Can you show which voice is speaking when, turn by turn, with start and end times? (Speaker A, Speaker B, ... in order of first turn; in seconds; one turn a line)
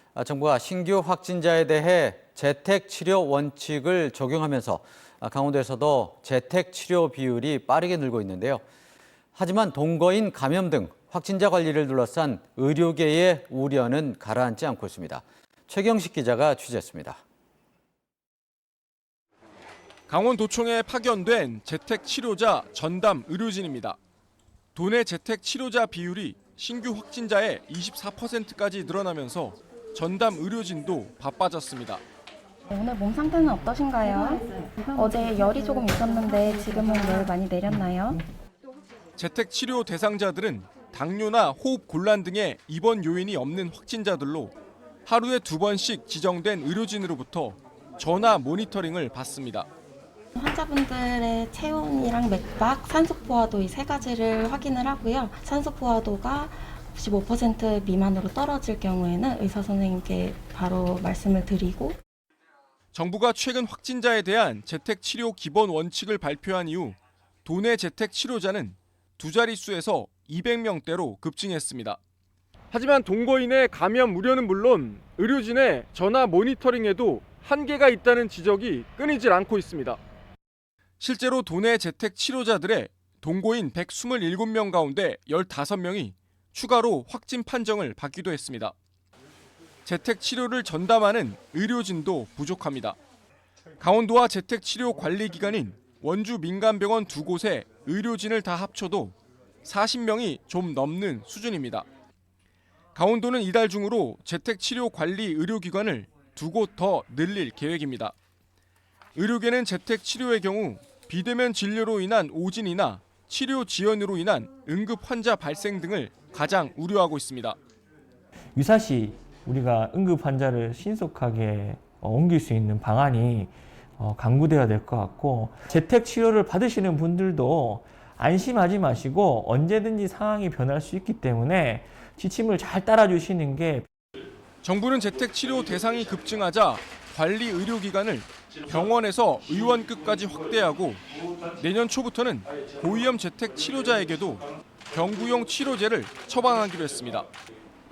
Speaker A: 0.1-8.6
Speaker A: 9.3-17.2
Speaker B: 20.1-24.0
Speaker B: 24.7-32.0
Speaker C: 32.7-38.2
Speaker B: 39.2-49.7
Speaker C: 50.3-62.0
Speaker B: 62.9-72.0
Speaker B: 72.7-80.0
Speaker B: 81.0-88.7
Speaker B: 89.8-93.0
Speaker B: 93.8-101.8
Speaker B: 102.9-108.1
Speaker B: 109.1-117.6
Speaker D: 118.5-133.9
Speaker B: 134.6-141.0
Speaker B: 141.6-147.3